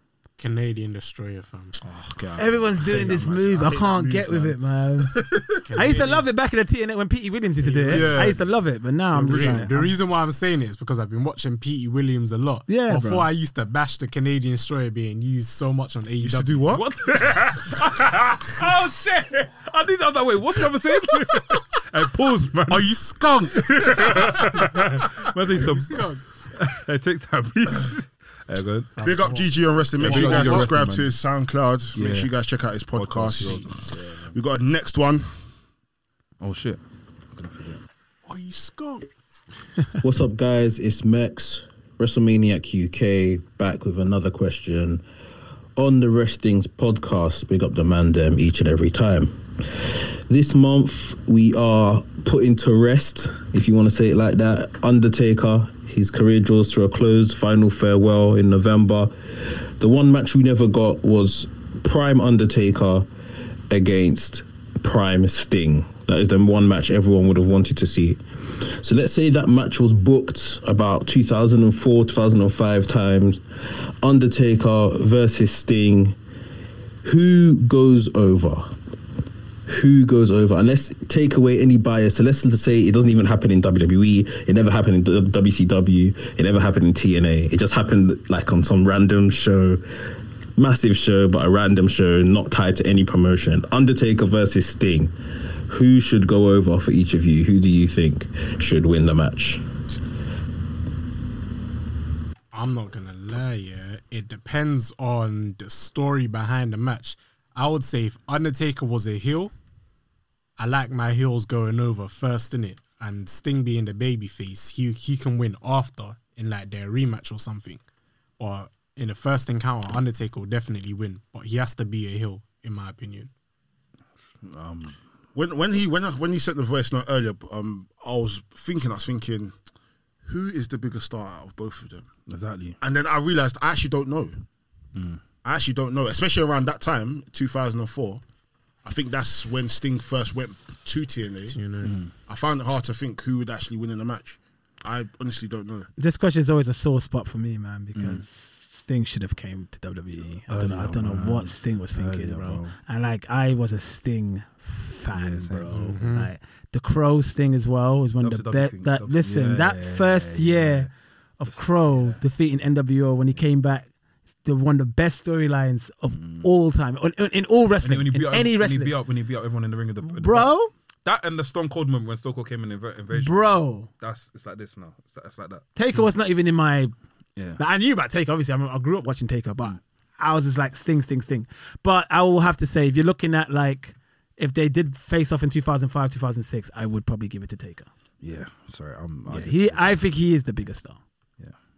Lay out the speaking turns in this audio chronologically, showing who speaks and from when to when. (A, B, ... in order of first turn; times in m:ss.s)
0:00.4-0:01.8 A
0:01.8-0:05.6 B
0:02.4-0:05.2 C
0:02.9-0:03.3 A
0:05.6-0:06.3 A
0:05.7-0:09.9 C
0:07.6-0:08.4 A
0:07.9-0:08.4 B
0:09.1-0:09.7 B
0:09.3-0:16.8 A
0:12.7-0:13.3 C
0:16.2-0:16.8 B
0:16.7-0:22.9 D
0:22.7-0:26.3 A
0:23.7-0:28.9 D
0:29.0-0:30.7 A
0:29.0-0:35.3 B
0:30.0-0:31.2 D
0:31.9-0:32.3 D
0:32.9-0:34.1 D
0:33.9-0:34.3 A
0:36.4-0:36.8 D
0:37.3-0:37.8 D
0:38.3-0:39.1 A
0:40.0-0:45.0 E
0:45.8-1:03.1 E
1:03.7-1:13.4 E
1:14.0-1:16.2 E
1:17.0-1:18.7 E
1:19.7-1:29.8 E
1:30.6-1:35.1 E
1:35.7-1:39.6 E
1:42.5-1:49.5 A
1:50.6-1:57.8 A
1:58.4-2:03.3 A
2:04.4-2:05.0 D
2:05.3-2:09.6 B
2:10.2-2:12.1 B
2:12.3-2:12.8 D
2:12.8-2:14.4 B
2:14.9-2:15.2 D
2:15.4-2:18.2 B
2:18.8-2:21.6 B
2:21.5-2:21.9 A
2:21.8-2:22.1 D
2:22.3-2:25.9 B
2:26.0-2:43.9 C
2:27.9-2:28.2 D
2:30.5-2:32.8 D
2:35.1-2:36.0 D
2:35.7-2:36.3 A
2:38.2-2:40.9 D
2:41.5-2:42.2 D
2:44.4-2:49.0 C
2:46.1-2:46.5 D
2:47.8-2:50.5 D
2:50.0-2:50.7 C
2:51.0-2:56.1 D
2:53.1-2:53.9 C
2:55.8-2:56.9 C
2:57.4-2:57.6 D
2:57.6-3:07.9 C
3:08.2-3:10.0 D
3:09.3-3:11.0 C